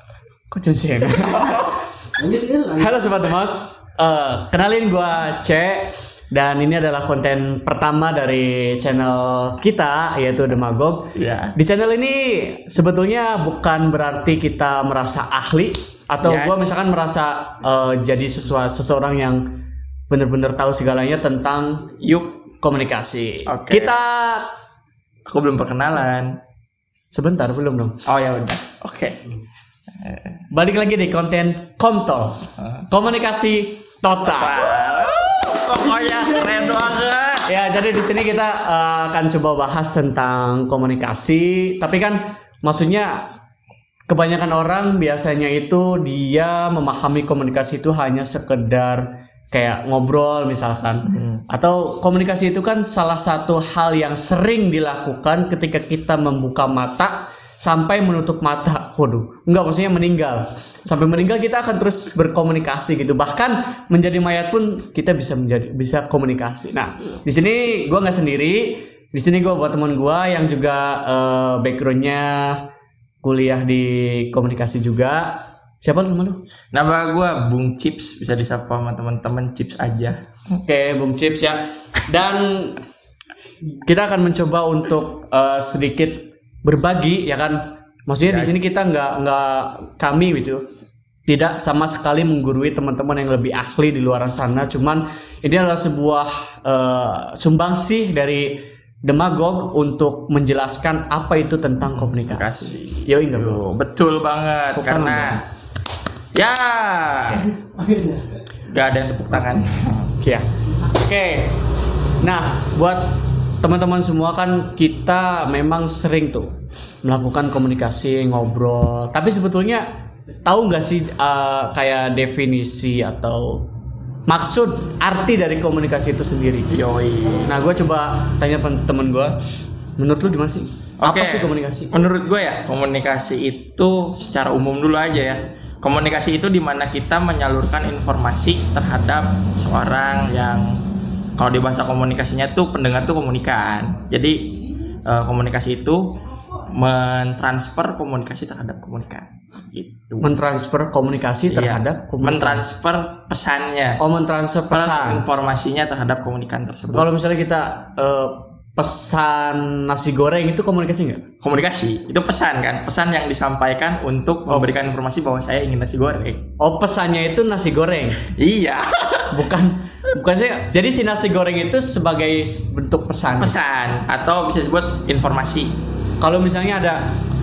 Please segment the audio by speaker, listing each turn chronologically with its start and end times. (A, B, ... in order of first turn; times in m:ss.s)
0:00.5-0:01.7 A
0:01.1-0:01.8 B
0:02.2-0:03.1 C
0:02.8-0:19.5 A
0:11.2-0:11.6 B
0:16.2-0:16.8 B
0:20.1-0:21.9 A
0:22.0-0:22.4 B
0:22.6-0:24.5 A
0:23.5-0:24.0 B
0:25.3-0:26.4 B
0:27.1-0:28.0 A
0:28.1-0:29.2 B
0:30.0-0:30.3 B
0:30.5-0:34.7 A
0:32.6-0:32.9 B
0:34.2-0:37.5 B
0:36.0-0:36.8 C
0:37.5-0:43.3 A
0:44.1-1:12.6 A
0:51.1-0:51.4 B
1:13.2-1:16.4 A
1:16.7-1:20.2 B
1:20.6-1:22.8 A
1:23.8-1:30.6 A
1:28.2-1:28.5 B
1:31.3-1:43.6 A
1:41.9-1:45.4 B
1:44.8-1:45.4 A
1:46.3-1:47.5 B
1:47.8-1:48.2 C
1:48.7-1:50.1 B
1:50.2-1:51.6 A
1:52.2-1:59.9 A
2:00.4-2:03.7 A
2:04.3-2:06.8 A
2:06.7-2:07.6 B
2:07.4-2:09.4 A
2:10.0-2:12.0 A
2:11.0-2:20.8 B
2:21.4-2:30.3 B
2:30.2-2:32.6 A
2:31.5-2:34.0 B
2:34.0-2:35.2 A
2:34.7-2:37.1 B
2:36.9-2:41.2 A
2:41.4-2:46.5 B
2:46.6-2:48.3 A
2:48.2-2:49.5 B
2:49.3-2:53.6 A
2:53.4-2:55.8 B
2:56.2-2:57.1 A